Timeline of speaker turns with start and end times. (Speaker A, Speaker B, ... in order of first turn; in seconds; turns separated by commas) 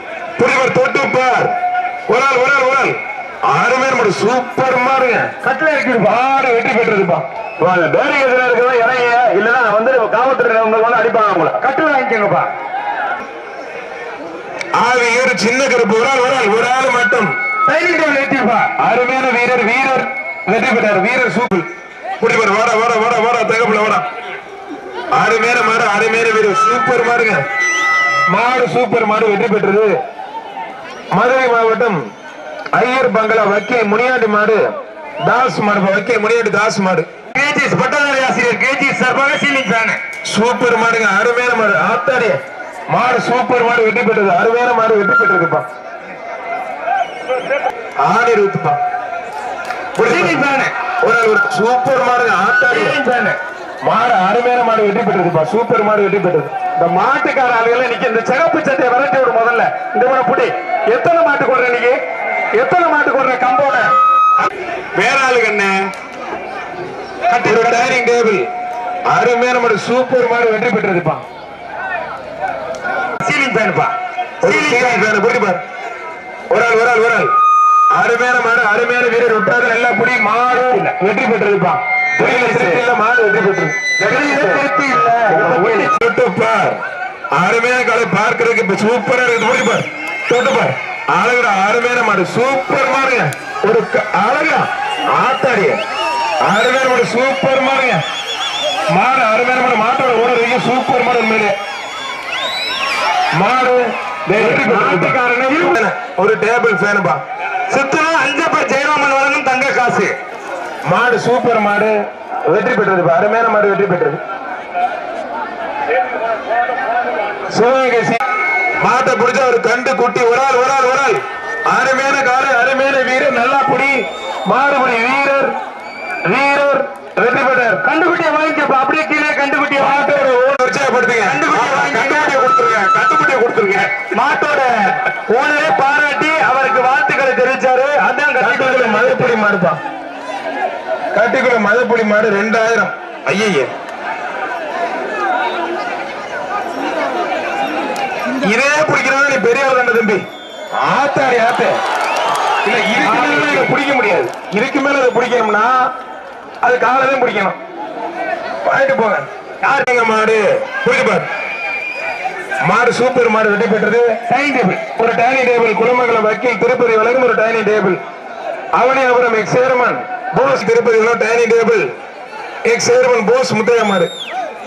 Speaker A: 0.4-1.5, Speaker A: 2.1-3.0, Speaker A: 3.5-5.3, Speaker B: 5.4-6.2, Speaker A: 6.0-7.2, Speaker C: 7.6-11.6, Speaker B: 11.6-12.5, Speaker A: 14.8-17.3, Speaker B: 17.7-18.7, Speaker A: 18.8-21.7, Speaker A: 22.2-24.0, Speaker A: 25.1-27.4, Speaker A: 28.3-30.0, Speaker A: 31.1-32.0, Speaker A: 32.7-34.7, Speaker A: 35.2-37.1, Speaker B: 37.3-40.0, Speaker A: 40.3-45.7, Speaker A: 48.0-48.8, Speaker A: 50.0-50.4, Speaker B: 50.0-50.7, Speaker A: 51.0-53.0, Speaker B: 52.7-53.4, Speaker A: 53.8-56.5, Speaker C: 56.8-61.9, Speaker C: 62.6-63.9, Speaker C: 65.0-65.8, Speaker B: 67.3-67.9, Speaker A: 67.4-68.5, Speaker A: 69.1-71.2, Speaker B: 73.2-75.1, Speaker A: 74.4-75.6, Speaker A: 76.5-77.3, Speaker A: 77.9-84.6, Speaker B: 80.5-80.9, Speaker B: 82.2-82.7, Speaker B: 84.0-85.9, Speaker A: 85.3-86.8, Speaker A: 87.3-95.8, Speaker A: 96.4-98.0, Speaker A: 98.9-101.5, Speaker A: 103.3-107.2, Speaker B: 104.4-105.8, Speaker C: 104.5-105.1, Speaker B: 107.7-110.1, Speaker A: 110.9-112.0, Speaker A: 112.5-114.2, Speaker A: 117.5-118.2, Speaker A: 118.8-125.5, Speaker A: 126.3-127.8, Speaker B: 127.8-130.1, Speaker A: 129.8-131.4, Speaker B: 131.2-132.4, Speaker C: 131.5-134.1, Speaker B: 134.1-139.3, Speaker A: 138.4-139.8, Speaker A: 141.1-142.9, Speaker C: 143.3-143.6, Speaker A: 148.4-150.2, Speaker A: 150.8-151.8, Speaker A: 152.6-155.9, Speaker B: 153.0-153.7, Speaker A: 156.6-157.6, Speaker A: 158.6-161.3, Speaker A: 162.6-164.2, Speaker B: 164.3-164.8, Speaker A: 165.0-168.0, Speaker A: 168.7-171.9, Speaker A: 172.7-174.1